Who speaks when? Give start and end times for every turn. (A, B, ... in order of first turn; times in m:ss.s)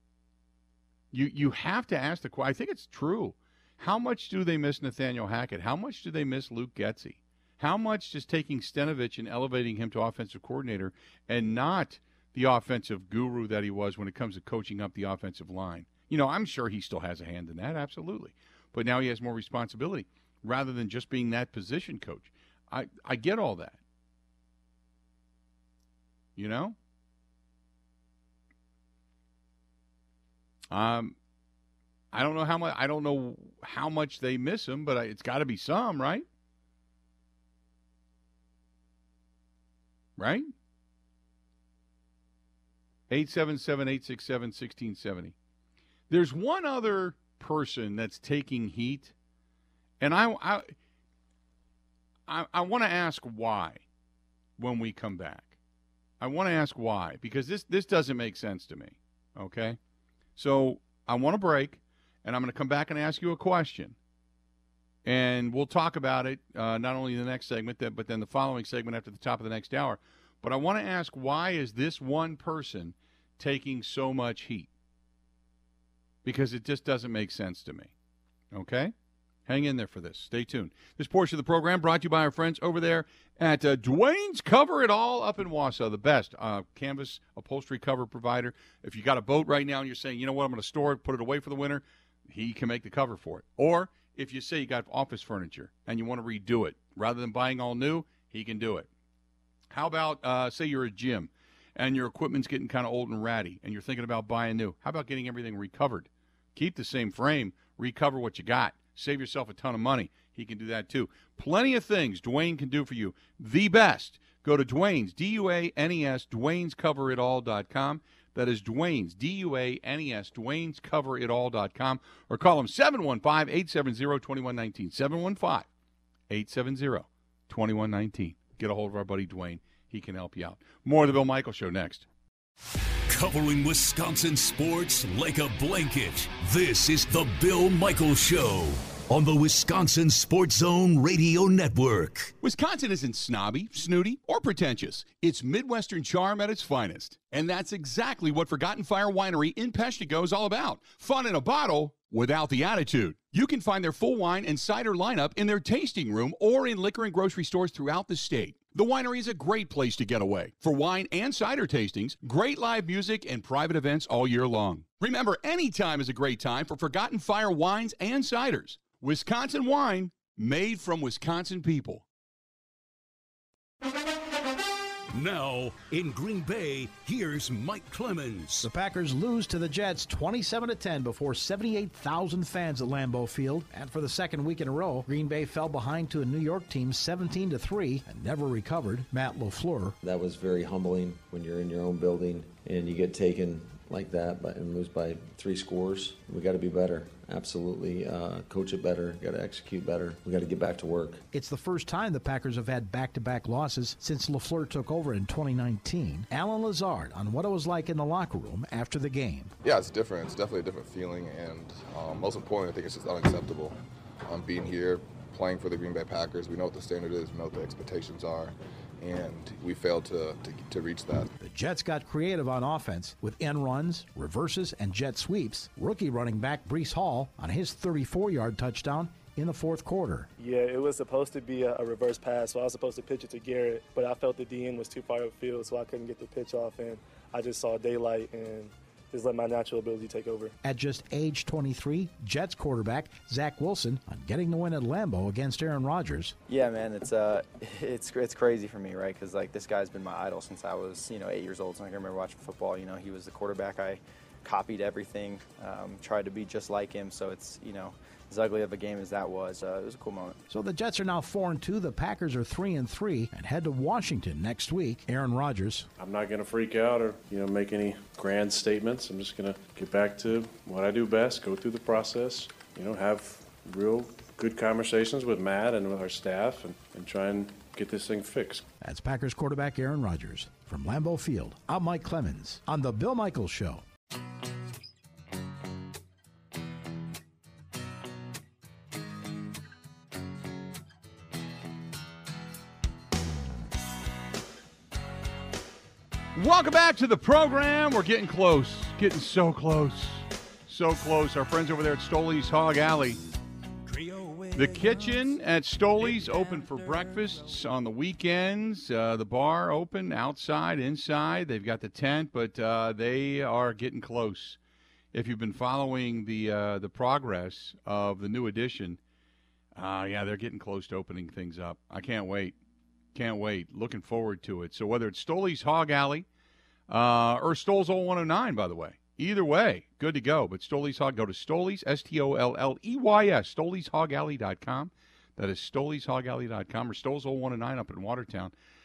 0:01.1-0:23.8 A
0:26.4-0:26.8 A
0:30.7-0:31.1 A
0:32.1-0:36.2 A
0:40.2-0:40.5 A
0:43.1-0:45.3 A
0:46.1-0:49.1 A
0:50.0-0:50.7 A
0:52.3-0:53.8 A
0:54.6-0:55.6 A
0:56.2-0:59.8 A
1:00.4-1:04.0 A
1:05.0-1:14.7 A
1:16.2-1:17.9 A
1:18.5-1:18.9 A
1:19.5-1:38.9 A
1:39.7-2:05.7 A
2:06.3-2:12.0 A
2:13.1-2:22.3 B
2:22.4-2:52.0 A
2:55.1-2:58.7 B
2:58.6-3:10.0 C
3:10.0-3:21.2 D
3:21.3-3:29.5 C
3:29.6-3:41.3 E
3:41.4-3:50.3 C
3:50.4-4:00.5 F
4:00.6-4:06.3 C
4:06.5-4:20.4 G
4:20.5-4:25.9 C
4:26.0-4:38.6 H
4:38.8-4:43.8 C
4:56.3-5:03.2 A
5:03.9-5:04.4 B
5:04.5-5:14.6 A
5:15.1-5:19.0 A
5:19.8-5:22.6 A
5:23.1-5:26.2 A
5:26.9-5:38.5 A